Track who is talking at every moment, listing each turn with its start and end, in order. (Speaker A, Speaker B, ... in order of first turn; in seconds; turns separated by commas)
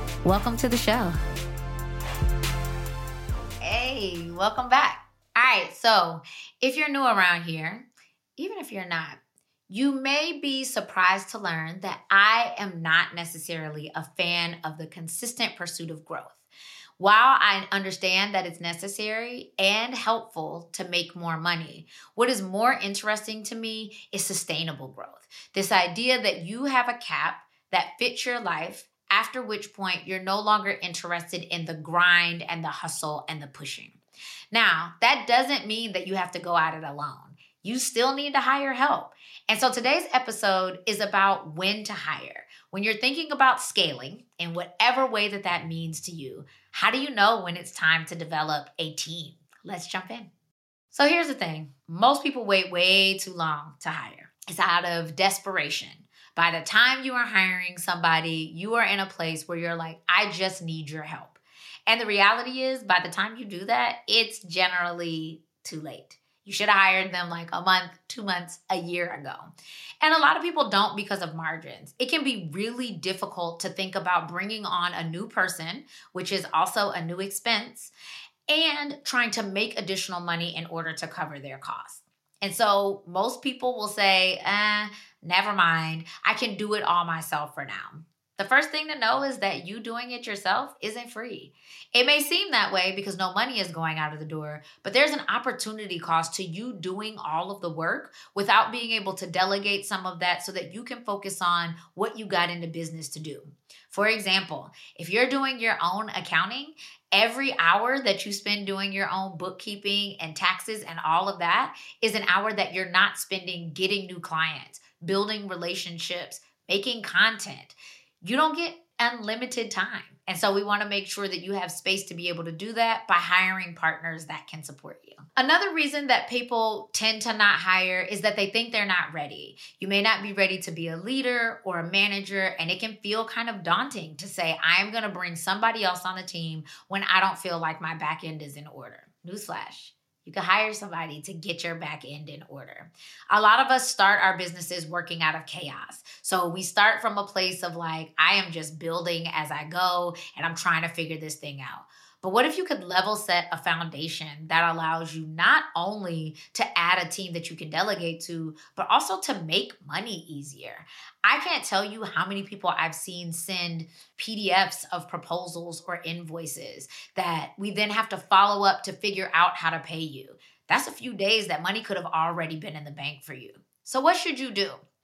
Speaker A: 0.2-1.2, Speaker A: 3.6-7.9, Speaker A: 8.4-16.4, Speaker A: 17.0-34.0, Speaker A: 34.5-50.3, Speaker A: 50.9-77.9, Speaker A: 78.5-174.8